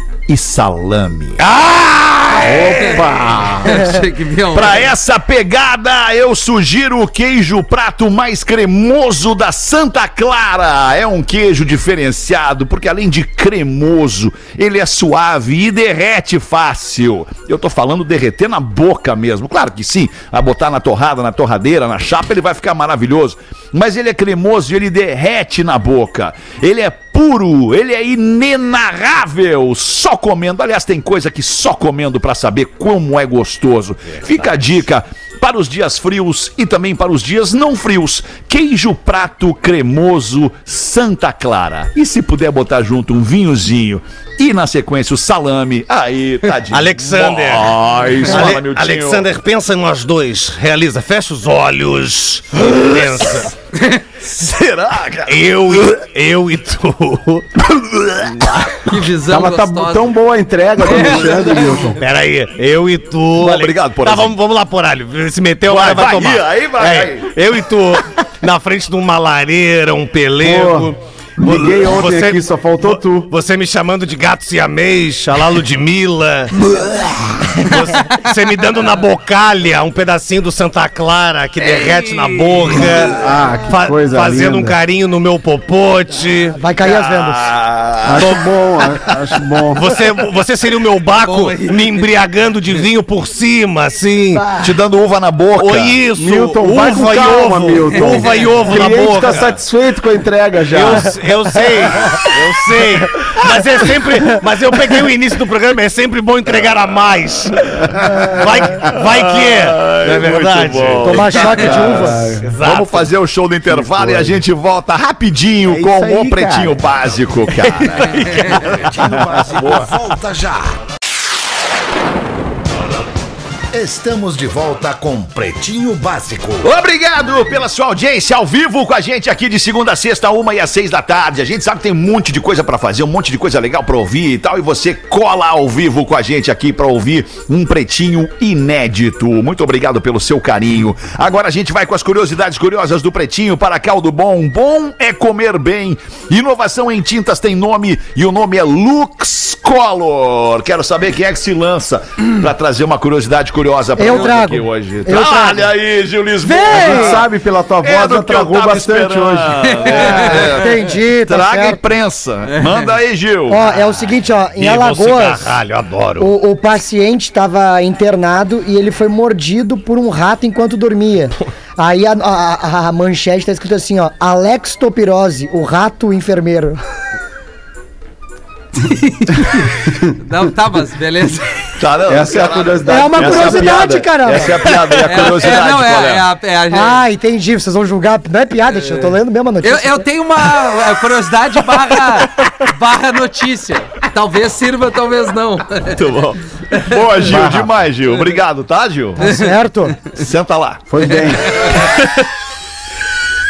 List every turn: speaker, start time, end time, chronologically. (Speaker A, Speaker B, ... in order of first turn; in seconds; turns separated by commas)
Speaker A: 0.3-1.4, Speaker B: 1.4-2.6, Speaker A: 2.4-3.2, Speaker C: 2.4-3.9, Speaker D: 2.7-3.0, Speaker D: 3.6-4.9, Speaker A: 4.5-49.3, Speaker B: 34.1-34.5, Speaker B: 46.7-53.5, Speaker A: 52.6-53.5, Speaker A: 54.2-56.0, Speaker B: 55.3-57.5, Speaker A: 57.6-58.8, Speaker D: 58.9-60.1, Speaker C: 59.3-62.0, Speaker D: 60.9-61.9, Speaker B: 62.0-86.6, Speaker A: 63.4-64.3, Speaker A: 65.6-67.3, Speaker C: 70.4-73.3, Speaker C: 82.8-84.8, Speaker E: 86.6-87.4, Speaker A: 86.8-88.3, Speaker C: 88.1-89.8, Speaker B: 88.2-88.4, Speaker B: 89.7-94.6, Speaker D: 91.2-92.0, Speaker A: 94.6-96.0, Speaker B: 95.6-99.6, Speaker C: 96.1-101.2, Speaker B: 100.7-111.7, Speaker A: 107.9-118.9, Speaker E: 111.0-112.3, Speaker C: 111.8-112.5, Speaker B: 112.4-113.1, Speaker C: 113.8-114.3, Speaker B: 115.7-116.8, Speaker B: 117.6-118.2, Speaker F: 118.9-120.8, Speaker A: 119.5-119.9, Speaker F: 123.7-126.7, Speaker A: 126.6-157.2, Speaker E: 154.0-155.7, Speaker D: 156.4-157.1, Speaker E: 156.6-157.2, Speaker C: 156.7-159.6, Speaker A: 157.8-163.6, Speaker D: 159.6-160.7, Speaker E: 159.8-161.8, Speaker D: 162.5-162.9, Speaker E: 163.5-165.6, Speaker B: 164.6-166.3, Speaker E: 166.2-176.8, Speaker D: 178.8-181.7, Speaker A: 181.8-186.2, Speaker C: 182.1-183.9, Speaker E: 182.9-184.6, Speaker D: 184.7-187.0, Speaker E: 186.7-190.0, Speaker D: 188.7-196.0, Speaker A: 195.9-199.3, Speaker D: 196.8-197.4, Speaker E: 199.2-199.9, Speaker D: 199.2-199.5, Speaker A: 200.1-201.0, Speaker C: 200.9-201.6, Speaker D: 201.1-201.9, Speaker B: 201.9-202.3